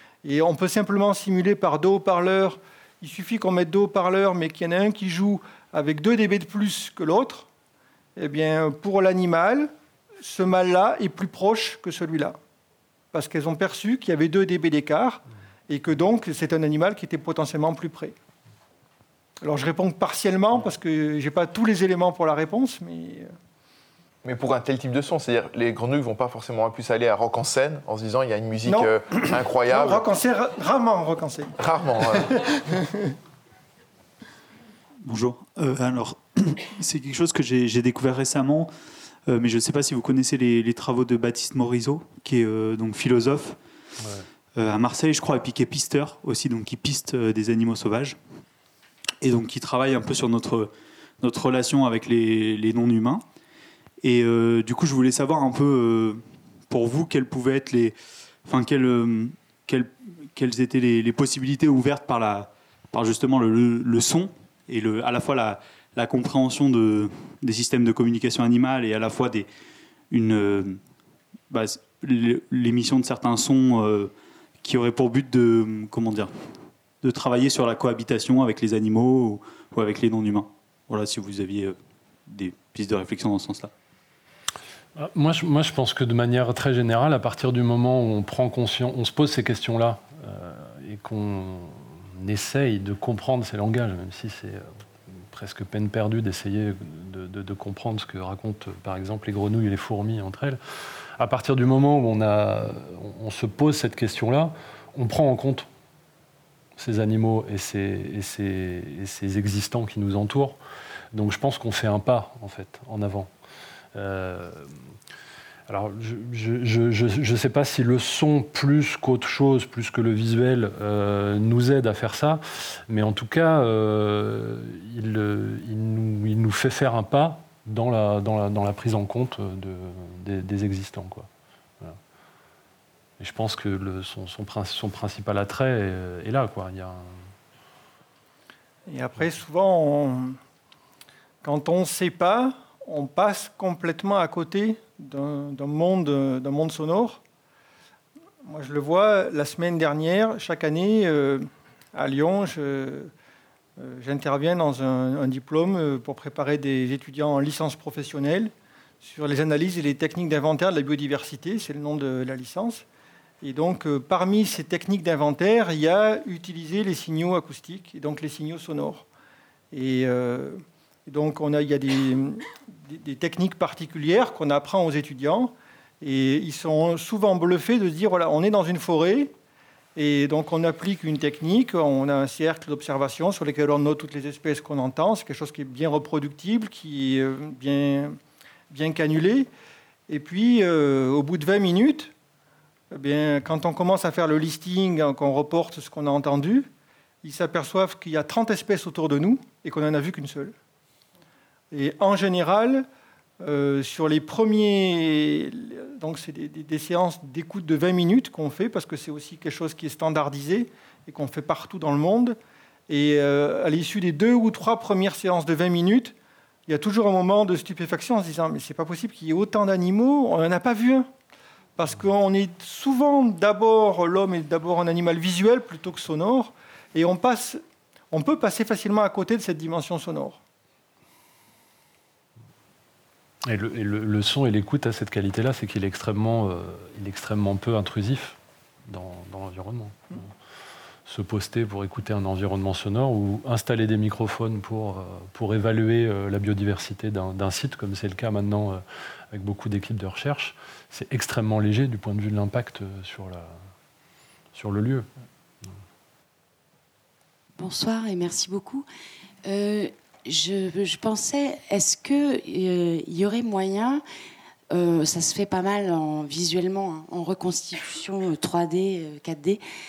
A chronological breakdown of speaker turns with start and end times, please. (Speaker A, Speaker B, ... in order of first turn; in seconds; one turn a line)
Speaker A: 0.2-7.5
Speaker A: 8.2-9.7
Speaker A: 10.2-12.4
Speaker A: 13.1-18.2
Speaker A: 19.4-23.3
Speaker B: 24.2-30.1
Speaker A: 28.7-31.6
Speaker B: 31.6-32.4
Speaker A: 32.1-33.1
Speaker C: 35.0-38.7
Speaker C: 39.3-43.6
Speaker C: 44.6-48.2
Speaker C: 49.2-53.2
Speaker C: 54.0-69.5
Speaker C: 70.1-70.8
Speaker C: 71.5-76.3
Speaker C: 77.0-83.7
Speaker D: 85.0-105.7
Speaker D: 106.8-110.6
Speaker D: 111.1-113.3
Speaker D: 114.0-114.8
Speaker D: 115.7-131.3
Speaker D: 133.2-137.3
Speaker A: 138.9-140.4
Speaker A: 141.4-147.2
Speaker A: 148.4-153.1
Speaker A: 153.8-162.8
Speaker A: 163.4-169.1
Speaker A: 169.7-179.3
Speaker A: 180.0-188.2
Speaker A: 188.7-189.5
Speaker A: 190.1-192.1
Speaker A: 192.9-196.7
Speaker A: 197.2-200.6
Speaker A: 201.7-202.9
Speaker A: 203.4-212.4
Speaker A: 212.9-216.2
Speaker A: 216.7-221.1
Speaker A: 221.8-227.6
Speaker A: 228.1-230.4
Speaker D: 233.4-240.3
Speaker D: 241.1-253.6
Speaker D: 254.5-255.1
Speaker E: 257.6-258.9
Speaker E: 259.4-264.0
Speaker E: 264.7-269.6